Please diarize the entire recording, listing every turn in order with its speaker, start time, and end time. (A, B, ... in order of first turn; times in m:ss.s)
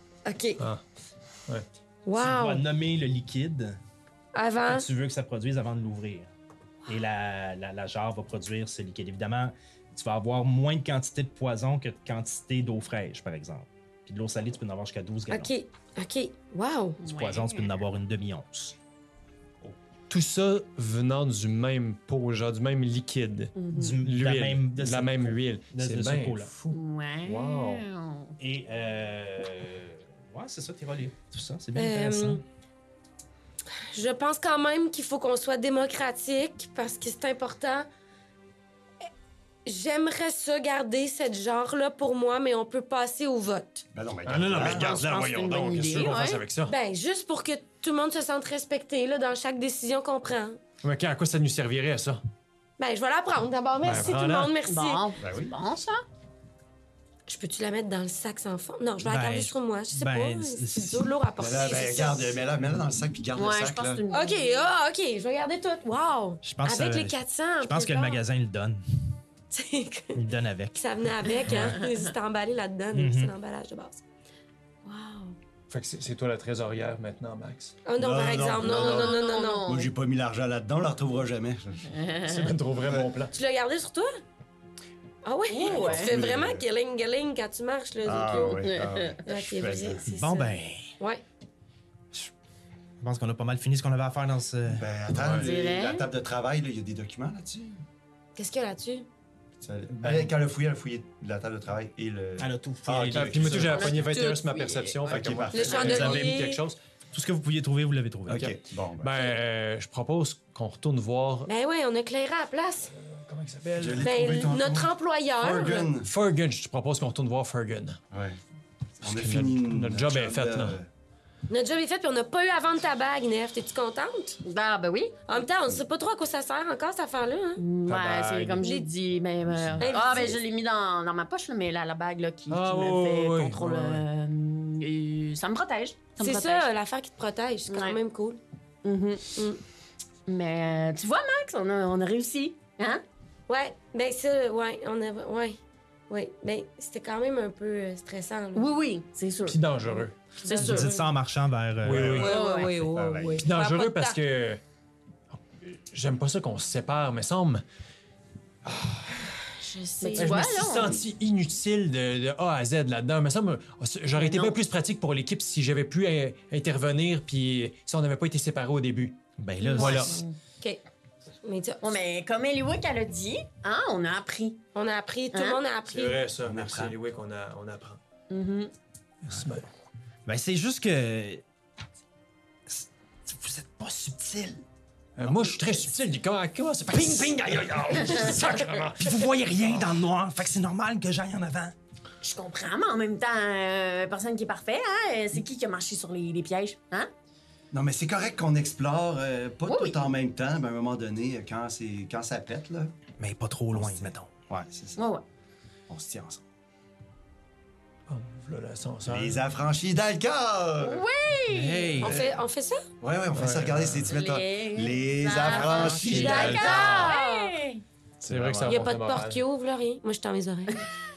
0:00.2-0:00.6 A
0:00.6-0:00.8 B
0:02.0-0:02.7 A
0:02.2-0:03.8 C
0:04.3-0:04.9 A
0:04.7-0:06.3 C
0:06.9-0:15.5 C
0:15.3-0:17.0 A
0:17.0-0:17.7 D
0:17.0-0:18.8 C
0:20.1-0:27.8 B
0:23.6-0:24.0 D
0:23.7-0:26.5 C
0:26.7-0:28.4 D
0:28.4-0:32.4 C
0:31.8-0:32.4 A
0:33.9-0:37.9 A
0:39.6-0:43.8 A
0:43.9-0:45.1 E
0:44.3-0:46.8 B
0:45.0-0:46.4 D
0:46.7-0:50.6 A
0:50.8-0:52.2 B
0:52.8-0:55.1 A
0:53.8-0:54.6 B
0:54.7-0:56.0 D
0:55.2-0:55.6 E
0:57.3-1:02.4 A
0:59.0-1:01.6 C
1:01.4-1:04.0 E
1:03.4-1:04.6 D
1:04.1-1:08.2 A
1:06.4-1:09.2 C
1:09.5-1:14.0 A
1:10.1-1:11.7 C
1:11.5-1:11.8 B
1:11.8-1:12.1 D
1:12.9-1:13.3 C
1:14.8-1:15.4 A
1:15.7-1:17.8 B
1:17.9-1:19.7 A
1:18.0-1:22.0 E
1:18.6-1:19.9 D
1:21.9-1:22.5 D
1:22.2-1:23.4 B
1:22.7-1:23.1 E
1:23.3-1:24.2 A
1:25.2-1:28.6 A
1:25.5-1:26.2 D
1:25.6-1:26.6 E
1:28.0-1:30.1 E
1:28.3-1:29.3 D
1:29.2-1:31.2 A
1:30.1-1:31.0 C
1:33.0-1:34.8 C
1:34.7-1:37.8 E
1:35.1-1:35.5 B
1:35.4-1:36.1 D
1:38.4-1:39.1 A
1:39.6-1:44.0 E
1:40.0-1:40.3 B
1:42.4-1:43.9 C
1:43.1-1:46.8 B
1:43.7-1:45.2 D
1:45.1-1:46.4 E
1:45.5-1:46.6 A
1:47.1-1:48.6 C
1:48.3-1:49.1 E
1:49.0-1:51.5 B
1:51.5-1:52.9 A
1:52.9-1:54.2 B
1:53.8-1:56.1 E
1:54.0-1:55.9 A
1:56.0-1:58.0 B
1:58.1-1:58.4 E
1:59.0-2:00.9 E
1:59.0-2:00.8 B
2:01.5-2:04.4 A
2:04.4-2:05.2 D
2:05.3-2:07.6 A
2:07.6-2:16.7 D
2:07.9-2:08.6 B
2:08.6-2:08.9 A
2:09.8-2:10.4 A
2:12.5-2:14.0 B
2:16.2-2:18.4 A
2:17.7-2:18.0 D
2:18.8-2:19.4 D
2:20.3-2:23.0 D
2:23.5-2:25.6 A
2:26.1-2:28.7 A
2:28.6-2:29.7 D
2:29.5-2:30.8 B
2:30.4-2:31.0 D
2:30.5-2:31.0 A
2:30.6-2:32.3 C
2:31.8-2:32.3 B
2:31.9-2:33.5 E
2:32.1-2:34.2 A
2:32.2-2:32.8 D
2:33.4-2:34.6 B
2:35.3-2:37.6 B
2:38.7-2:39.4 B
2:39.6-2:41.0 D
2:40.0-2:40.4 A
2:40.2-2:49.2 B
2:44.2-2:44.6 D
2:49.4-2:50.2 C
2:49.7-2:50.4 D
2:49.8-2:50.2 B
2:51.4-2:51.9 A
2:51.8-2:54.6 D
2:54.8-2:56.2 A
2:55.3-2:55.6 D
2:55.9-2:58.0 B
2:56.4-2:57.0 E
2:58.3-2:58.7 D
2:59.2-2:59.7 B
3:00.3-3:01.4 C
3:02.7-3:04.6 C
3:05.2-3:09.8 B
3:05.2-3:05.8 C
3:06.9-3:07.5 C
3:08.1-3:08.4 C
3:09.0-3:11.7 C
3:12.2-3:17.1 D
3:17.7-3:23.0 E
3:19.7-3:20.1 D
3:23.2-3:24.3 C
3:23.7-3:25.0 E
3:25.0-3:25.2 D
3:25.9-3:26.4 E
3:28.1-3:29.5 B
3:29.1-3:31.1 E
3:30.8-3:32.0 D
3:31.5-3:32.2 C
3:32.0-3:32.4 E
3:32.0-3:32.9 A
3:33.0-3:36.8 E
3:33.3-3:34.1 B
3:34.1-3:37.8 D
3:35.5-3:37.6 A
3:35.6-3:36.5 C
3:36.0-3:37.2 B
3:38.2-3:38.9 E
3:38.2-3:39.4 B
3:38.7-3:40.8 A